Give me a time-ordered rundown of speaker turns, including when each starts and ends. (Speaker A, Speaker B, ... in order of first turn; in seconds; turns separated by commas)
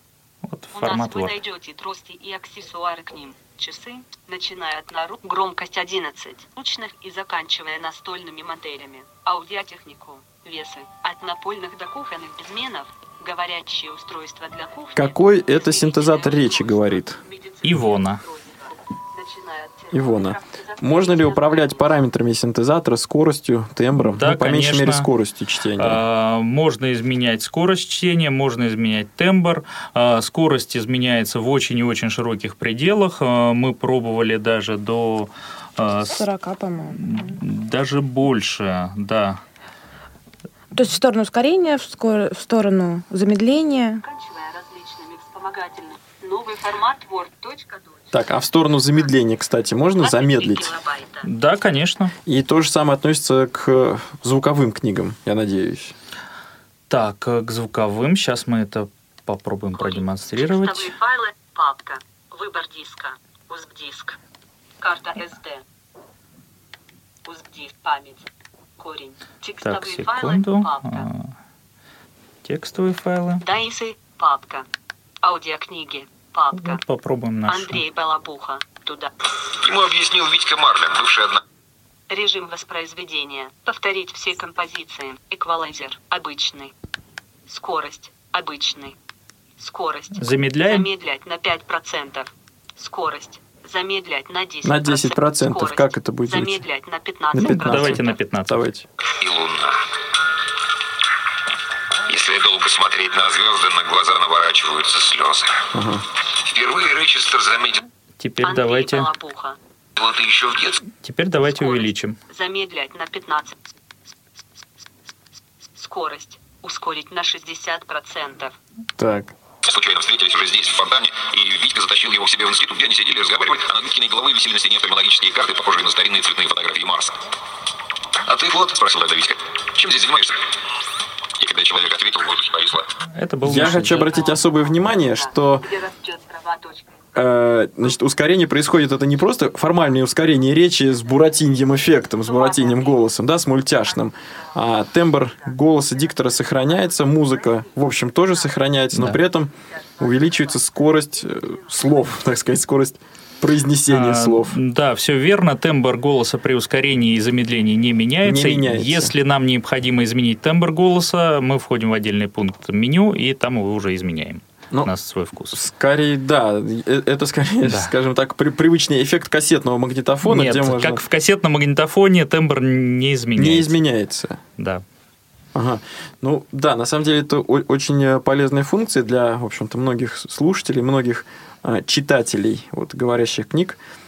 Speaker A: 0.5-1.4, Speaker B: 0.7-22.0, Speaker C: 14.9-17.2, Speaker A: 17.6-18.2, Speaker C: 19.9-26.0, Speaker A: 24.0-25.1, Speaker A: 25.8-36.2, Speaker D: 36.1-37.4, Speaker A: 37.0-39.4, Speaker D: 40.7-44.0, Speaker B: 44.0-48.1, Speaker C: 48.1-50.7, Speaker B: 50.0-51.3, Speaker A: 51.2-52.1, Speaker C: 52.3-56.0, Speaker A: 56.9-60.9, Speaker B: 59.8-64.2, Speaker B: 64.8-65.6, Speaker B: 67.3-68.3, Speaker B: 68.8-71.1, Speaker A: 69.6-71.3, Speaker A: 72.5-73.4, Speaker B: 73.4-74.7, Speaker B: 75.2-76.8, Speaker A: 76.5-77.8, Speaker B: 77.5-79.1, Speaker E: 79.6-81.4, Speaker B: 82.1-86.7, Speaker B: 87.5-89.0, Speaker B: 89.6-98.2, Speaker A: 90.2-90.9, Speaker C: 94.6-96.6, Speaker C: 97.3-98.9, Speaker A: 97.5-98.7, Speaker E: 99.1-99.8, Speaker E: 102.1-105.7, Speaker C: 105.7-106.0, Speaker E: 106.4-107.8, Speaker A: 108.2-109.1, Speaker B: 108.4-109.6, Speaker E: 110.0-110.8, Speaker A: 111.0-112.2, Speaker B: 111.4-113.6, Speaker B: 115.8-118.5, Speaker C: 119.0-119.3, Speaker E: 119.6-127.2, Speaker E: 128.2-130.4, Speaker E: 131.4-132.9, Speaker A: 133.2-134.2, Speaker C: 133.4-135.7, Speaker B: 134.1-137.0, Speaker C: 137.2-154.6, Speaker B: 142.2-143.1, Speaker B: 145.2-148.5, Speaker A: 148.9-149.2, Speaker B: 149.7-152.3, Speaker A: 153.9-165.6, Speaker C: 158.2-159.1, Speaker C: 165.5-171.0, Speaker A: 167.7-167.9, Speaker A: 170.2-173.8, Speaker C: 173.4-174.4, Speaker A: 174.6-174.8, Speaker C: 175.6-183.8